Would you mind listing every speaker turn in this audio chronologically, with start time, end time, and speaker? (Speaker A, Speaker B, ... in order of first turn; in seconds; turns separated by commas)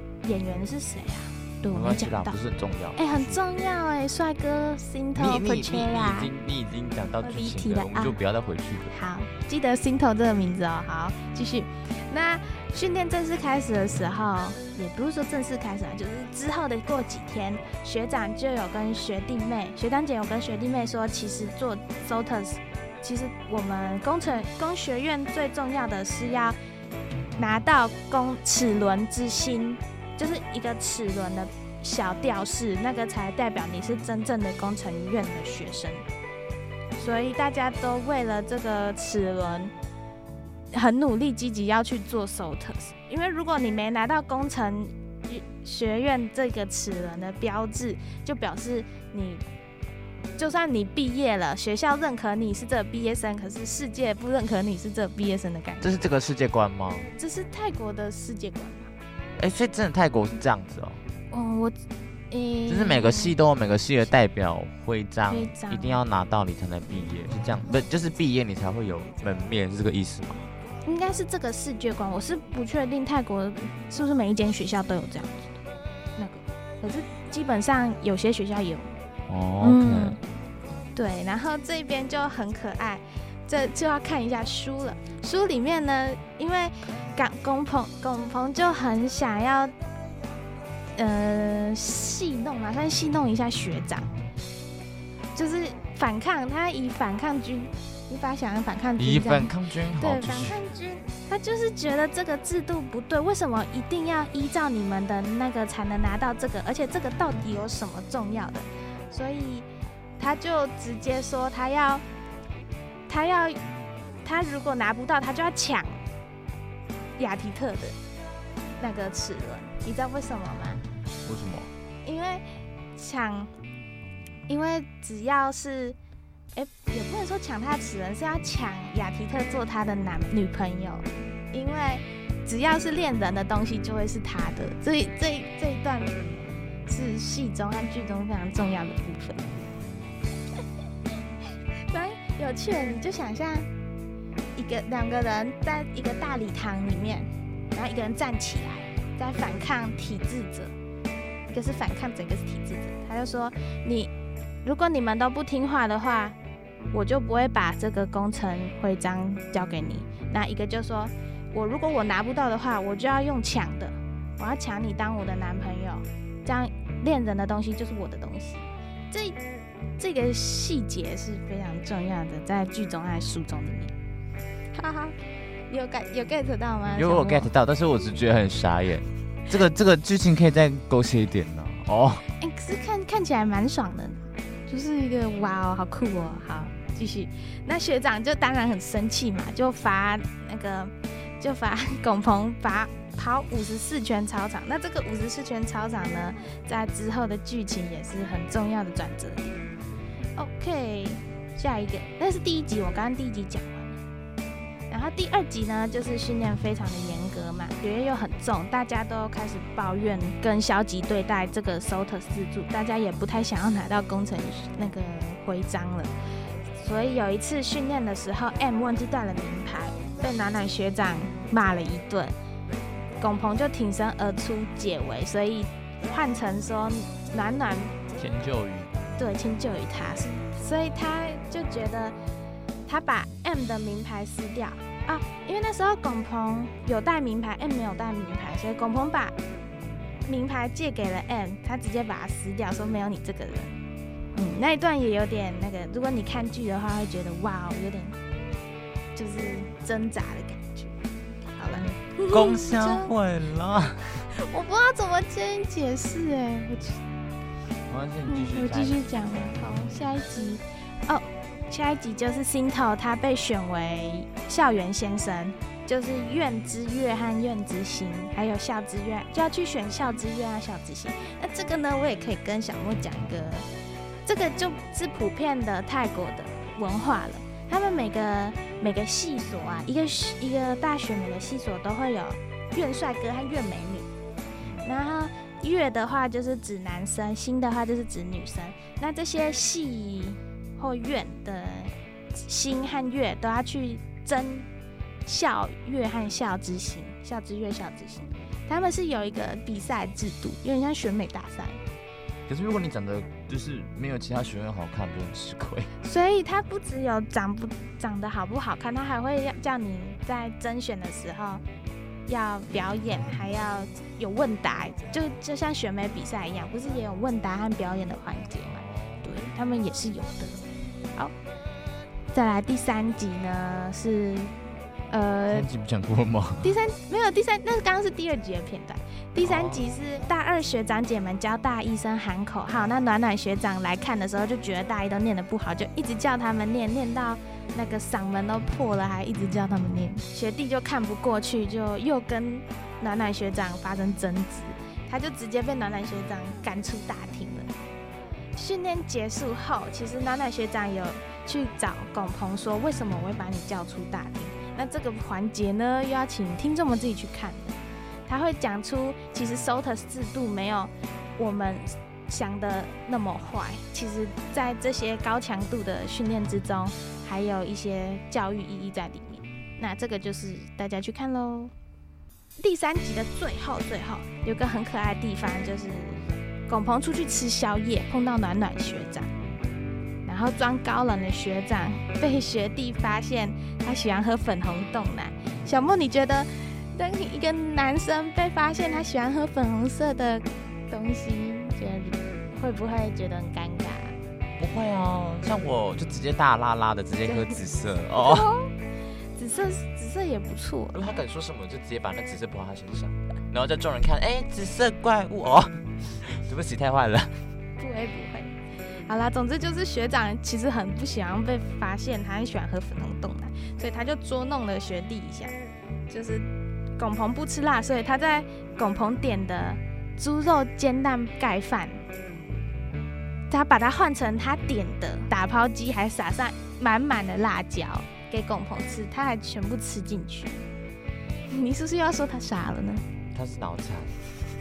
Speaker A: 0.2-2.4, Speaker B: 1.7-3.4, Speaker A: 3.0-6.3, Speaker B: 5.1-8.9, Speaker A: 7.2-8.2, Speaker A: 8.9-26.6, Speaker A: 27.4-36.0, Speaker A: 37.0-39.7, Speaker A: 40.7-49.4, Speaker A: 50.4-56.0, Speaker B: 55.8-57.1, Speaker A: 57.2-58.9, Speaker B: 59.4-61.0, Speaker A: 61.3-61.8, Speaker A: 62.3-63.3, Speaker B: 62.7-70.5, Speaker A: 65.3-66.0, Speaker A: 70.8-75.6, Speaker A: 76.2-78.9, Speaker B: 79.3-80.2, Speaker A: 79.6-80.2, Speaker A: 80.9-89.7, Speaker A: 91.0-94.1, Speaker A: 95.3-109.7, Speaker B: 99.0-100.6, Speaker A: 110.2-112.0, Speaker A: 113.1-113.6, Speaker A: 114.2-116.0, Speaker A: 117.2-118.0, Speaker A: 118.8-120.8, Speaker B: 121.2-121.7, Speaker A: 122.0-122.4, Speaker A: 122.9-123.5, Speaker A: 124.5-126.0, Speaker A: 126.5-136.2, Speaker A: 136.9-139.5, Speaker A: 141.9-143.7, Speaker A: 144.6-150.7, Speaker A: 151.5-154.1, Speaker A: 154.6-156.3, Speaker A: 156.9-169.4, Speaker A: 170.0-173.9, Speaker A: 174.7-175.2, Speaker A: 175.7-177.5, Speaker B: 176.9-182.2, Speaker A: 182.4-199.6, Speaker A: 200.4-204.0, Speaker A: 204.9-216.1, Speaker A: 216.8-222.3, Speaker A: 223.2-228.0, Speaker B: 228.1-229.2, Speaker A: 229.2-232.1, Speaker A: 232.8-239.3, Speaker A: 240.2-243.7, Speaker A: 244.3-248.2, Speaker A: 249.1-250.9, Speaker A: 251.6-253.1, Speaker B: 251.8-254.0, Speaker A: 254.3-257.0, Speaker B: 257.9-259.0, Speaker A: 258.3-273.6, Speaker A: 274.2-284.1, Speaker B: 284.6-284.9, Speaker A: 284.8-294.7, Speaker A: 295.2-301.8, Speaker B: 302.5-305.9, Speaker A: 306.0-311.6, Speaker A: 312.3-321.3, Speaker B: 318.7-319.3, Speaker A: 322.3-324.5, Speaker A: 325.1-325.7, Speaker B: 325.5-326.7, Speaker A: 326.6-347.7, Speaker B: 329.4-329.8, Speaker A: 348.5-357.8, Speaker A: 358.3-371.7, Speaker A: 372.6-379.3, Speaker A: 380.2-394.1, Speaker B: 394.6-398.5, Speaker A: 397.3-397.5, Speaker A: 398.1-398.7, Speaker A: 399.4-401.2, Speaker B: 400.9-407.3, Speaker A: 407.8-408.5, Speaker A: 409.1-415.5, Speaker A: 416.1-416.4, Speaker A: 417.0-422.0, Speaker A: 423.5-430.6, Speaker A: 431.5-433.0, Speaker B: 433.3-434.1